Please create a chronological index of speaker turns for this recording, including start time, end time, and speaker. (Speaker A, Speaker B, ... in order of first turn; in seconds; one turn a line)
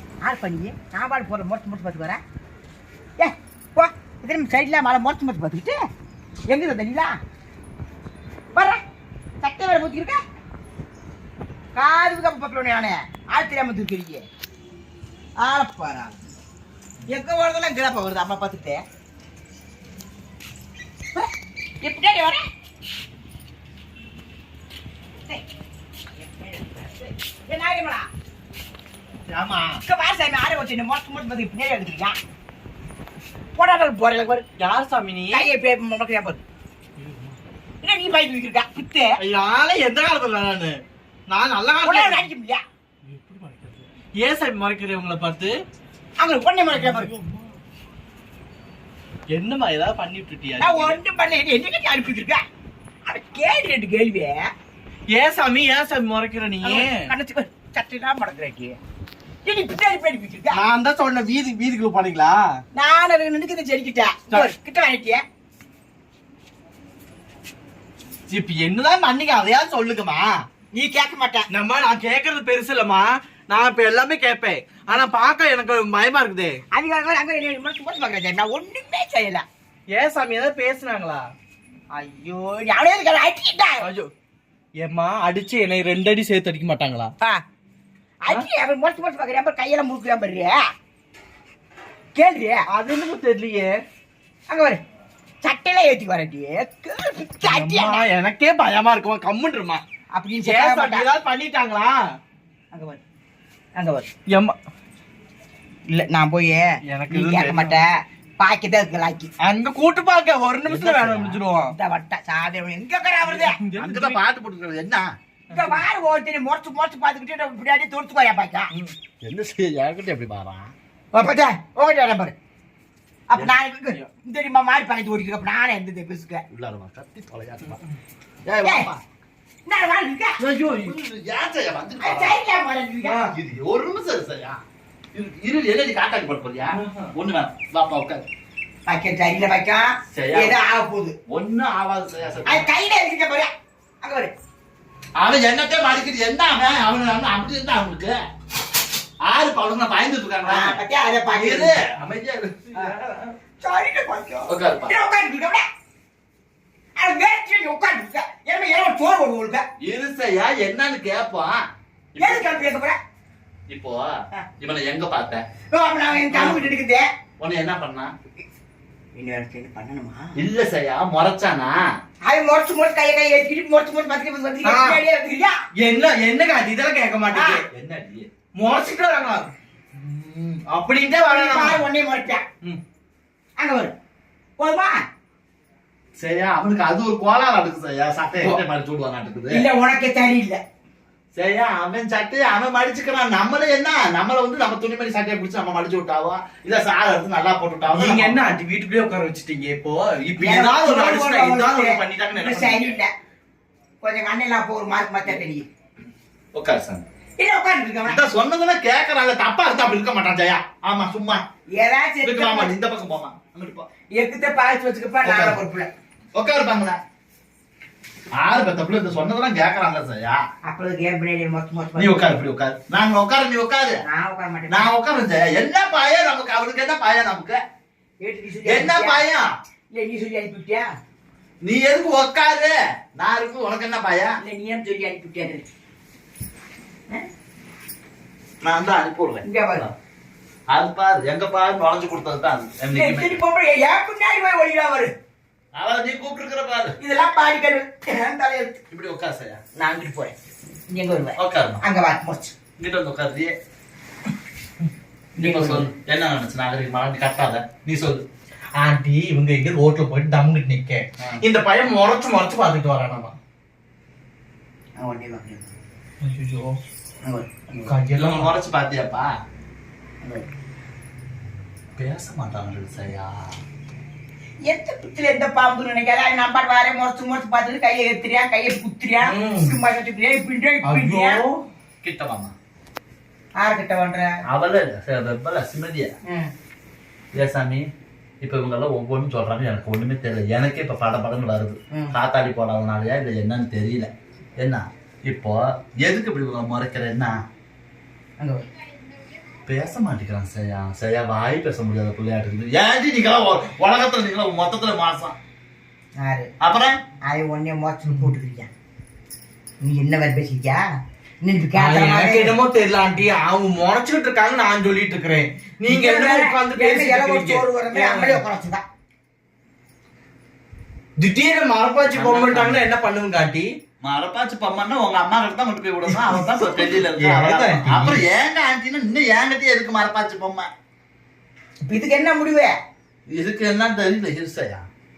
Speaker A: 0.2-2.2
Speaker A: 3.2-5.8
Speaker A: 6.5-7.2
Speaker A: 8.5-8.8
Speaker A: 9.4-10.2
Speaker A: 11.8-14.3
Speaker A: 15.4-16.1
Speaker A: 17.1-18.8
Speaker A: 21.8-22.4
Speaker A: 26.2-28.1
Speaker B: 29.4-29.8
Speaker A: 29.8-32.2
Speaker A: 33.5-34.5
Speaker B: 34.6-35.5
Speaker A: 35.3-36.4
Speaker B: 37.0-37.4
Speaker A: 37.8-39.2
Speaker B: 39.2-42.3
Speaker A: 41.8-42.6
Speaker B: 43.0-45.5
Speaker A: 46.2-47.1
Speaker B: 46.8-47.5
Speaker B: 49.3-51.0
Speaker A: 50.6-52.4
Speaker A: 53.1-54.5
Speaker B: 55.1-57.1
Speaker A: 56.6-58.8
Speaker A: 59.5-60.6
Speaker B: 60.5-62.6
Speaker A: 62.8-65.2
Speaker B: 68.3-70.4
Speaker A: 70.7-71.5
Speaker B: 71.5-76.6
Speaker A: 76.7-79.5
Speaker B: 79.9-81.3
Speaker A: 81.9-83.8
Speaker B: 83.8-84.1
Speaker B: 84.8-87.1
Speaker A: 88.2-90.7
Speaker A: 92.2-92.7
Speaker B: 92.7-93.8
Speaker A: 94.5-94.8
Speaker A: 95.4-98.0
Speaker B: 97.5-99.8
Speaker A: 100.1-101.1
Speaker B: 100.4-102.0
Speaker A: 102.7-103.0
Speaker A: 103.8-104.1
Speaker B: 104.3-104.6
Speaker A: 105.9-109.3
Speaker B: 106.9-107.8
Speaker B: 109.4-111.7
Speaker C: 110.7-111.3
Speaker A: 111.6-113.6
Speaker B: 113.2-114.2
Speaker C: 113.8-115.1
Speaker A: 115.5-118.7
Speaker B: 115.5-115.8
Speaker C: 119.2-120.7
Speaker A: 121.1-122.3
Speaker A: 123.3-126.4
Speaker C: 126.5-127.8
Speaker C: 128.4-129.0
Speaker A: 128.6-128.9
Speaker A: 129.7-130.4
Speaker C: 130.4-132.4
Speaker A: 132.0-133.3
Speaker C: 133.2-134.6
Speaker C: 135.1-138.2
Speaker B: 136.7-137.1
Speaker A: 138.9-141.2
Speaker C: 140.1-140.6
Speaker C: 141.3-142.7
Speaker A: 142.5-143.5
Speaker A: 144.0-144.3
Speaker C: 145.2-148.2
Speaker C: 149.2-153.2
Speaker A: 150.5-151.8
Speaker A: 153.6-155.7
Speaker C: 154.5-154.9
Speaker A: 157.0-159.7
Speaker C: 159.8-161.6
Speaker C: 162.2-162.4
Speaker A: 162.2-163.0
Speaker C: 163.7-165.4
Speaker A: 165.7-167.1
Speaker C: 166.3-166.7
Speaker C: 167.4-168.1
Speaker A: 169.2-170.4
Speaker C: 170.4-171.8
Speaker A: 172.3-175.6
Speaker B: 174.6-175.0
Speaker B: 175.8-177.6
Speaker A: 177.3-177.6
Speaker C: 177.7-178.3
Speaker B: 178.6-179.5
Speaker C: 180.0-180.6
Speaker B: 180.7-181.8
Speaker A: 181.3-182.4
Speaker A: 183.6-183.9
Speaker A: 184.6-185.0
Speaker C: 186.2-189.7
Speaker A: 189.5-190.6
Speaker C: 191.3-198.4
Speaker B: 197.9-203.0
Speaker A: 200.4-203.1
Speaker A: 204.0-205.7
Speaker C: 206.5-207.0
Speaker A: 207.4-208.2
Speaker C: 208.1-211.4
Speaker A: 211.7-212.8
Speaker C: 212.2-213.9
Speaker A: 214.1-215.9
Speaker C: 215.2-215.6
Speaker C: 216.3-217.0
Speaker C: 218.4-220.4
Speaker A: 220.7-222.4
Speaker C: 222.0-224.0
Speaker A: 224.1-224.9
Speaker C: 224.7-227.6
Speaker A: 228.2-229.2
Speaker C: 228.7-229.5
Speaker A: 229.9-230.9
Speaker C: 231.6-234.4
Speaker A: 234.4-235.7
Speaker C: 238.6-239.9
Speaker A: 239.4-239.9
Speaker C: 240.7-243.4
Speaker A: 242.9-245.1
Speaker C: 245.8-247.0
Speaker A: 247.0-248.8
Speaker C: 248.9-249.6
Speaker A: 249.8-250.4
Speaker A: 250.9-252.5
Speaker C: 251.4-251.8
Speaker C: 252.8-253.5
Speaker A: 255.4-255.9
Speaker C: 255.4-258.3
Speaker B: 258.7-263.4
Speaker A: 265.0-265.7
Speaker B: 266.2-266.8
Speaker A: 267.2-267.9
Speaker B: 267.9-268.5
Speaker C: 268.2-269.3
Speaker A: 270.2-270.5
Speaker C: 272.0-273.6
Speaker A: 274.6-281.4
Speaker B: 279.2-279.8
Speaker B: 280.8-281.6
Speaker C: 282.0-282.6
Speaker A: 283.6-284.4
Speaker C: 284.5-286.1
Speaker C: 287.3-287.9
Speaker C: 288.4-297.4
Speaker A: 298.4-298.7
Speaker C: 299.7-305.4
Speaker A: 306.2-306.5
Speaker C: 306.6-307.0
Speaker A: 307.3-308.7
Speaker B: 308.1-308.3
Speaker A: 309.8-310.8
Speaker A: 311.4-312.6
Speaker B: 311.8-318.4
Speaker A: 315.9-318.8
Speaker B: 321.2-323.7
Speaker C: 322.1-322.9
Speaker C: 324.0-330.7
Speaker B: 326.1-328.2
Speaker A: 331.9-332.8
Speaker C: 333.3-334.9